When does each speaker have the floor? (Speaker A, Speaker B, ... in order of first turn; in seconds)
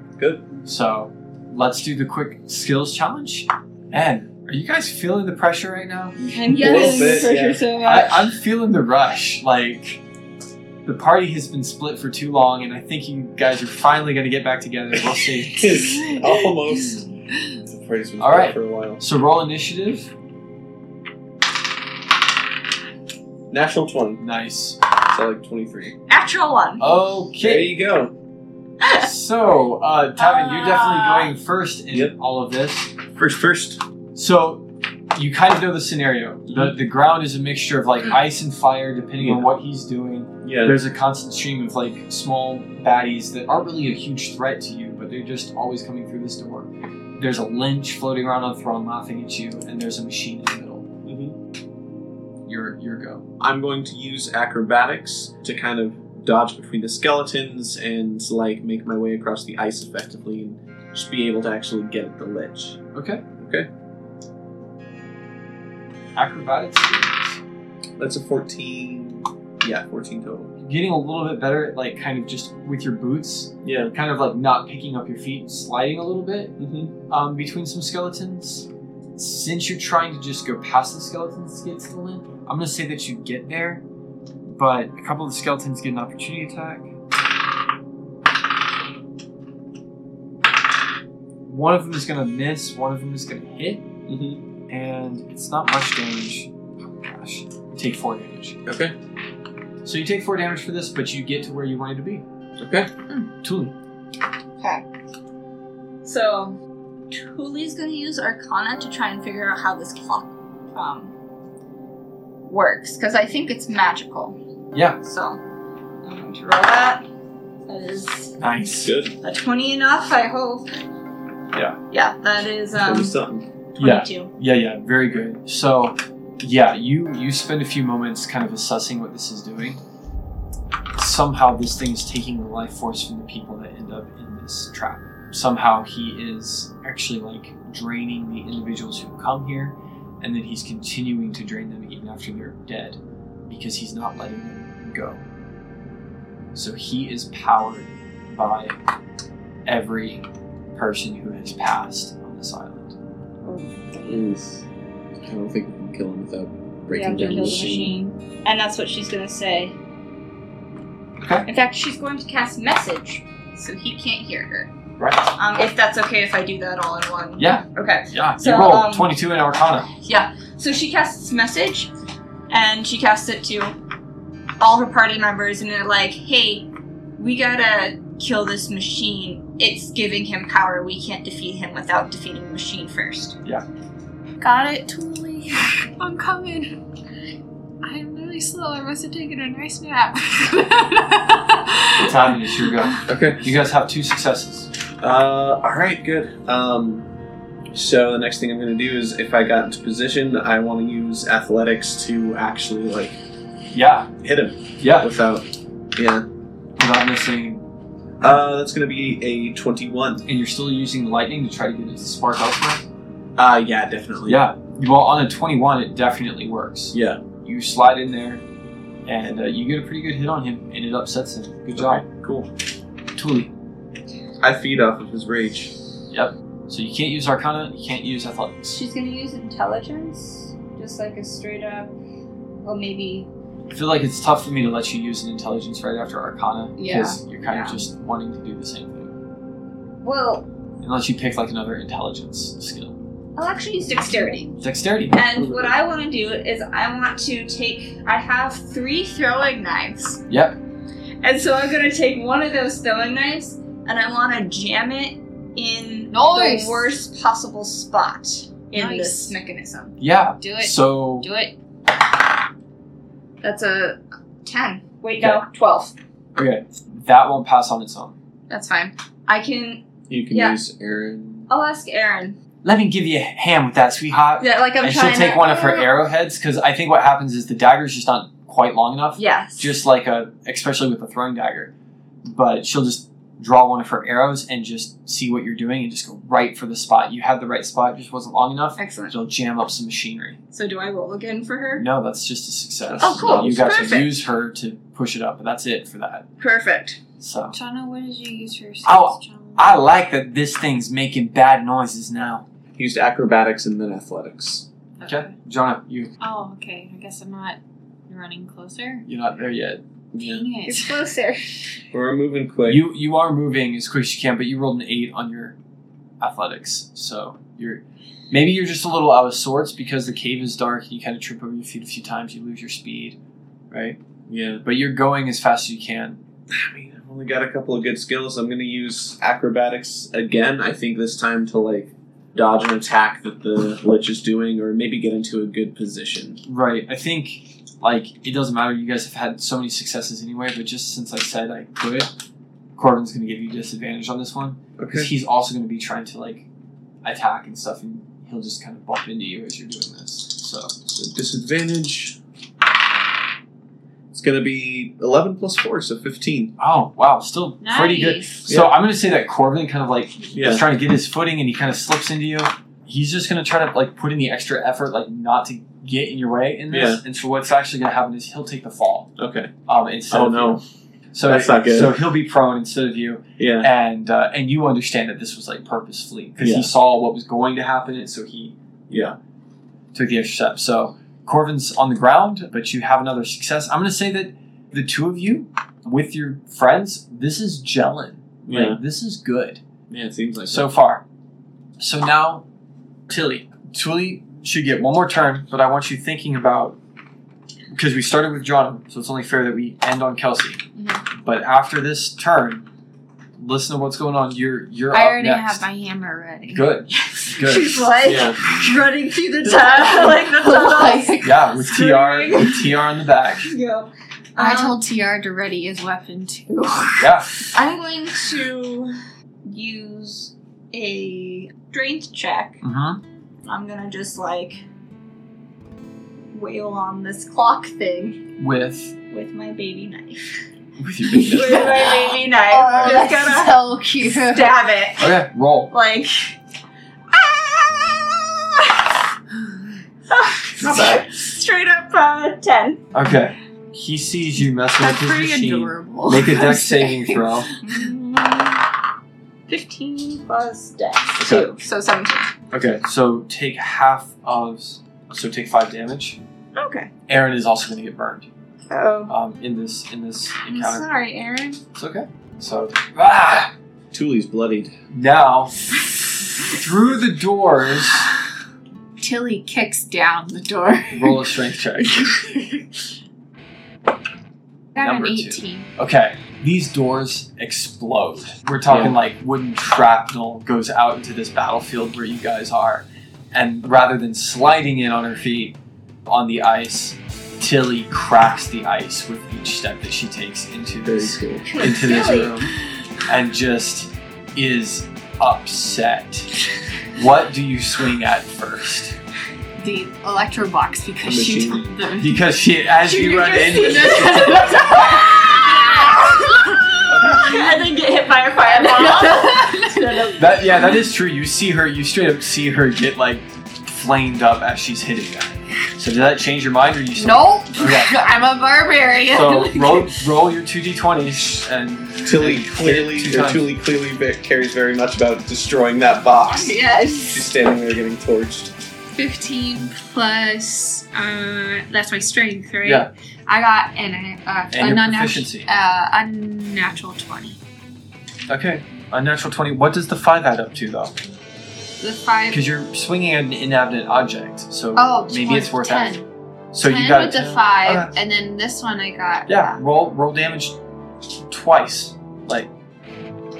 Speaker A: 0.2-0.5, 6.2-7.6, 15.5-17.1, 17.6-19.0, 23.5-24.2, 25.1-25.9, 27.4-28.1, 33.1-33.8, 36.5-36.7, 39.2-39.5, 40.4-40.8, 51.0-51.4, 53.4-62.8, 63.4-63.7, 68.0-70.5, 73.6-73.9, 76.6-76.9, 94.1-94.4, 98.7-98.9, 102.6-102.9, 118.8-119.1, 122.7-123.5, 154.1-154.6, 155.2-157.9, 193.1-193.4, 195.0-197.1, 197.7-203.1, 204.2-206.2, 208.2-210.2, 213.4-214.4, 216.9-217.2, 221.7-222.5, 224.4-225.7, 245.4-245.7, 270.1-271.5, 292.9-293.7, 302.8-304.6, 310.1-310.4, 311.9-312.8, 324.3-324.6, 326.5-336.4, 344.8-345.1, 350.9-352.2, 354.1-356.5, 358.5-358.7, 360.3-360.6, 366.7-367.0, 369.2-369.5, 370.1-370.6, 371.2-372.0, 373.4-373.7, 376.4-376.7, 378.9-379.1, 388.4-388.8, 389.9-390.7, 408.0-408.4, 440.6-441.1, 463.9-464.7, 478.7-478.9, 490.8-491.6, 501.0-501.7, 522.0-528.5
Speaker B: 0.6-6.9, 7.8-10.0, 10.8-15.8, 18.2-20.1, 24.2-24.8, 26.8-27.8, 28.9-32.9, 34.1-50.9, 52.5-53.3, 62.9-63.2, 66.2-67.4, 70.6-76.5, 77.1-83.8, 84.4-86.9, 91.5-93.9, 94.7-98.6, 99.8-102.2, 103.4-103.7, 114.7-115.0, 118.4-119.0, 123.8-129.8, 130.9-145.2, 146.5-148.8, 149.7-152.9, 161.2-161.5, 165.0-165.3, 167.4-169.9, 192.0-194.7, 203.7-204.1, 204.8-205.1, 206.8-207.6, 210.3-212.8, 214.3-218.4, 219.1-222.0, 223.2-223.5, 226.1-228.8, 233.7-239.1, 240.8-243.0, 244.6-245.2, 250.3-250.6, 260.0-261.3, 266.4-268.2, 272.6-281.7, 282.2-290.4, 291.8-296.3, 297.2-297.6, 298.8-302.4, 305.0-306.1, 309.1-309.8, 312.7-315.6, 316.2-323.2, 323.7-324.0, 324.6-326.2, 336.4-342.1, 342.8-346.4, 347.0-350.7, 356.6-369.1, 369.6-379.1, 379.9-389.6, 390.4-391.0, 391.8-392.4, 393.1-396.8, 397.7-400.6, 401.2-402.6, 403.4-405.6, 406.5-407.9, 411.2-413.5, 417.0-417.3, 422.6-423.0, 428.4-428.9, 430.8-431.8, 435.0-435.7, 442.9-447.5, 451.2-451.5, 452.5-456.2, 457.1-458.3, 459.1-460.9, 461.7-463.5, 464.9-465.6, 466.5-468.1, 470.9-472.0, 474.8-492.5, 493.1-496.4, 496.9-498.9, 502.0-504.6, 506.9-507.5, 510.2-517.9, 519.1-523.5, 532.6-532.9, 534.5-535.5, 538.3-540.9, 542.3-546.0, 546.5-547.9, 549.3-550.6, 551.3-552.5
Speaker C: 6.3-8.3, 26.1-26.8, 28.8-29.1, 30.2-31.3, 106.0-106.6, 107.1-111.1, 112.4-114.4, 115.0-115.4, 116.0-117.0, 117.7-118.3, 119.2-120.7, 121.9-123.1, 123.8-124.3, 153.4-154.2, 156.9-159.7, 161.4-164.7, 165.4-169.1, 170.0-171.9, 172.5-173.7, 174.6-183.4, 228.7-231.9, 232.6-233.3, 236.8-237.8, 240.0-240.5, 243.4-244.6, 245.1-250.2, 251.2-259.9, 263.4-265.9, 268.5-270.6, 271.5-272.4, 274.4-275.9, 279.2-279.7, 288.8-289.1, 290.5-291.9, 293.0-294.2, 296.4-297.0, 310.6-311.8, 407.2-412.7, 413.4-414.8, 417.5-418.9, 419.4-422.6, 423.4-424.6, 426.3-428.2, 429.1-430.3, 431.1-435.1, 435.7-436.4, 437.1-438.9, 440.1-442.8, 447.6-448.7, 449.5-452.3, 456.6-456.9, 458.7-459.1, 460.5-461.6, 491.5-492.5, 502.9-510.5
Speaker D: 157.2-158.1, 184.4-186.8, 187.8-192.8, 256.1-256.9, 258.7-259.4, 260.4-261.5, 297.5-299.8, 305.0-305.3, 306.2-309.1, 310.1-311.0, 357.6-358.4, 404.9-406.7, 409.8-411.5, 414.4-417.4, 431.3-434.6, 444.8-447.8, 469.0-472.7, 474.7-475.7, 499.6-502.2, 503.2-507.3, 508.4-510.2, 517.0-520.0, 526.3-527.3, 528.9-537.4, 541.8-542.4, 544.8-546.1, 546.6-549.6